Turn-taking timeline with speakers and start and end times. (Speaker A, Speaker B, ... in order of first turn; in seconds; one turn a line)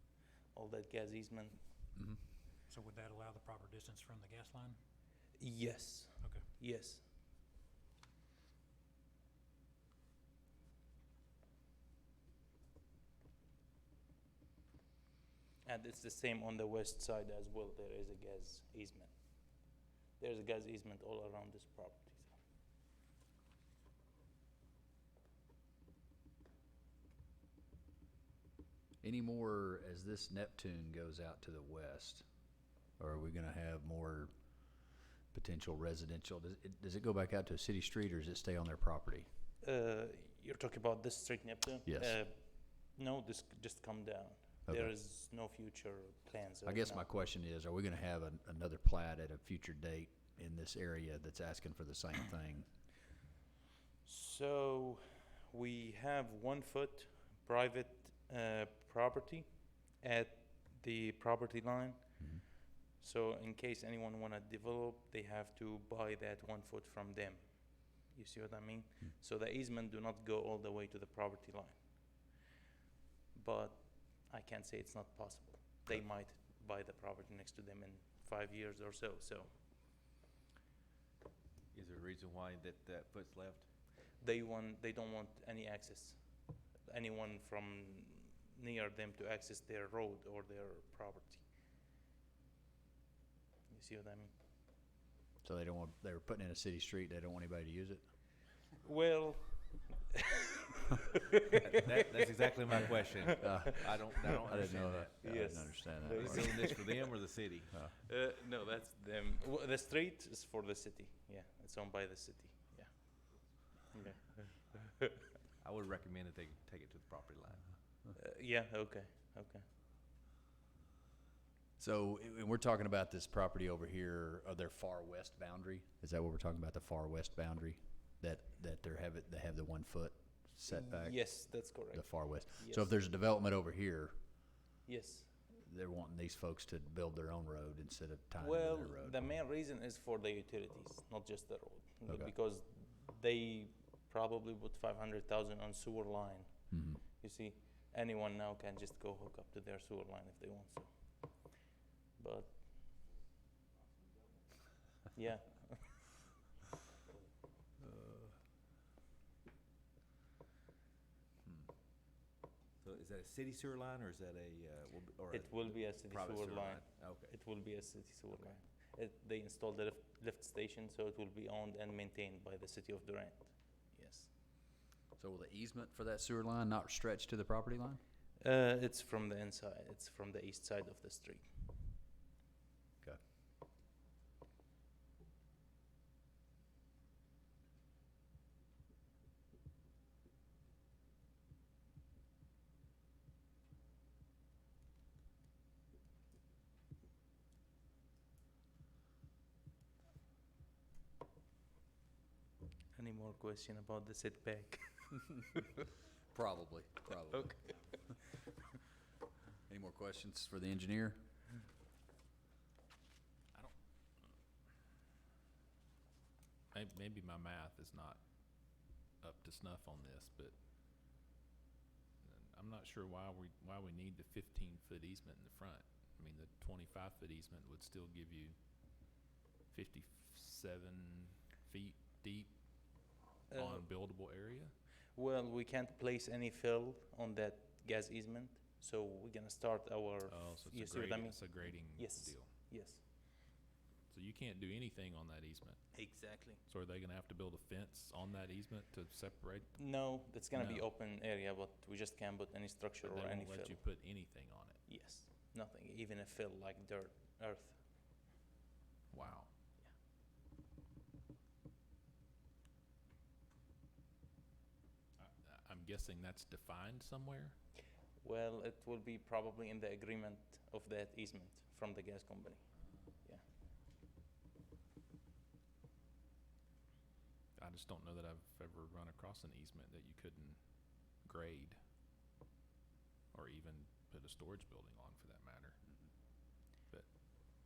Speaker A: 0.5-1.6
Speaker B: 2.8-4.8
Speaker A: 5.4-7.0
Speaker A: 15.6-19.7
Speaker A: 20.2-22.4
Speaker C: 29.0-32.2
Speaker C: 33.0-34.3
Speaker C: 35.3-39.3
Speaker A: 39.6-47.0
Speaker C: 41.9-42.2
Speaker C: 44.7-44.9
Speaker C: 46.6-52.7
Speaker A: 54.0-72.3
Speaker A: 73.3-79.5
Speaker D: 81.7-83.7
Speaker A: 84.2-86.2
Speaker A: 86.8-91.4
Speaker A: 93.7-94.3
Speaker C: 95.4-98.0
Speaker A: 98.8-101.8
Speaker D: 101.7-105.1
Speaker C: 103.3-106.8
Speaker A: 105.2-106.8
Speaker D: 106.0-107.8
Speaker A: 108.0-112.9
Speaker A: 113.8-115.3
Speaker D: 115.6-117.7
Speaker A: 118.1-119.6
Speaker C: 121.8-134.1
Speaker A: 130.7-132.9
Speaker A: 134.8-135.3
Speaker C: 135.5-139.2
Speaker A: 138.4-150.9
Speaker C: 146.7-147.0
Speaker A: 152.2-152.6
Speaker A: 155.1-156.0
Speaker D: 162.8-167.3
Speaker A: 165.3-174.3
Speaker C: 175.2-178.0
Speaker A: 178.4-181.5
Speaker A: 202.9-205.4
Speaker C: 206.3-207.6
Speaker C: 209.7-211.2
Speaker E: 216.7-218.2
Speaker E: 219.2-220.5
Speaker E: 222.2-228.6
Speaker E: 229.7-232.5
Speaker A: 233.5-233.8
Speaker E: 233.5-234.7
Speaker A: 235.1-243.0
Speaker E: 240.3-242.5
Speaker E: 244.1-245.9
Speaker A: 245.9-246.6
Speaker E: 246.6-250.8
Speaker A: 249.8-253.8
Speaker E: 253.0-254.8
Speaker A: 254.9-257.8
Speaker E: 259.1-259.5
Speaker E: 265.2-267.5
Speaker A: 268.2-272.6
Speaker E: 277.6-280.6
Speaker E: 281.2-281.8
Speaker E: 283.3-285.8